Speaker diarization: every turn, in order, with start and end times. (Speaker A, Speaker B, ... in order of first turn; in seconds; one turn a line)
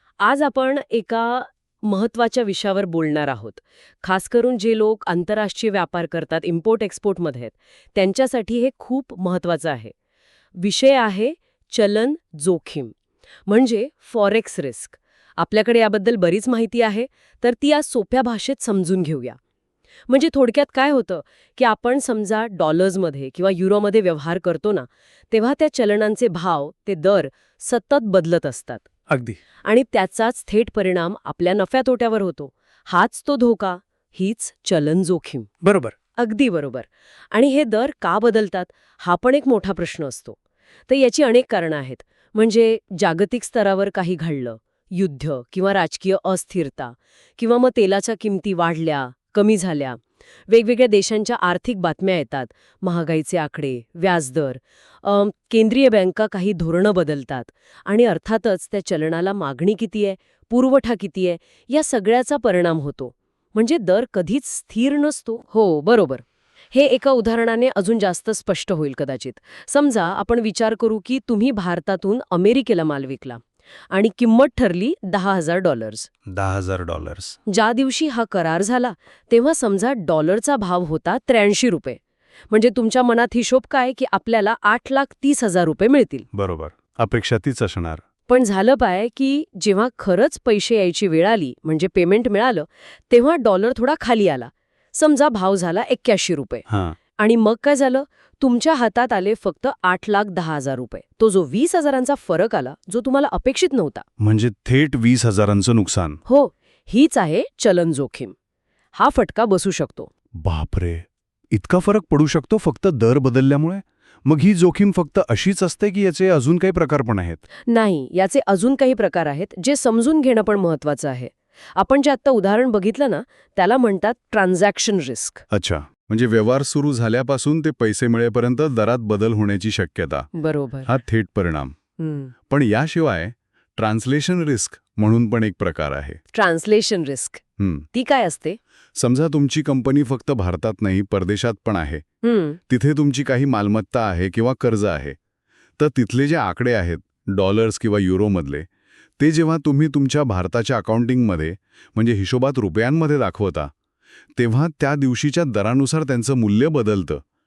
Speaker A: 0.2-9.9
Speaker A: 10.6-12.9
Speaker A: 13.5-19.4
Speaker A: 20.1-28.9
Speaker A: 29.6-35.5
Speaker B: 35.6-35.9
Speaker A: 36.2-40.4
Speaker A: 40.9-76.1
Speaker B: 76.3-77.4
Speaker A: 77.5-86.3
Speaker B: 86.3-88.0
Speaker A: 88.3-96.7
Speaker B: 96.7-97.0
Speaker A: 97.2-104.0
Speaker B: 104.2-106.2
Speaker A: 106.3-108.3
Speaker A: 109.0-110.1
Speaker B: 110.4-117.4
Speaker A: 117.7-125.4
Speaker B: 125.5-130.3
Speaker A: 130.3-130.9
Speaker B: 130.9-131.8
Speaker A: 132.0-132.3
Speaker B: 132.5-136.2
Speaker A: 136.3-137.4
Speaker B: 137.6-137.9
Speaker A: 137.9-138.6
Speaker B: 139.0-142.0
Speaker A: 142.2-142.6
Speaker B: 142.7-145.2
Speaker B: 145.8-148.7
Speaker B: 149.2-153.7
Speaker B: 154.4-157.2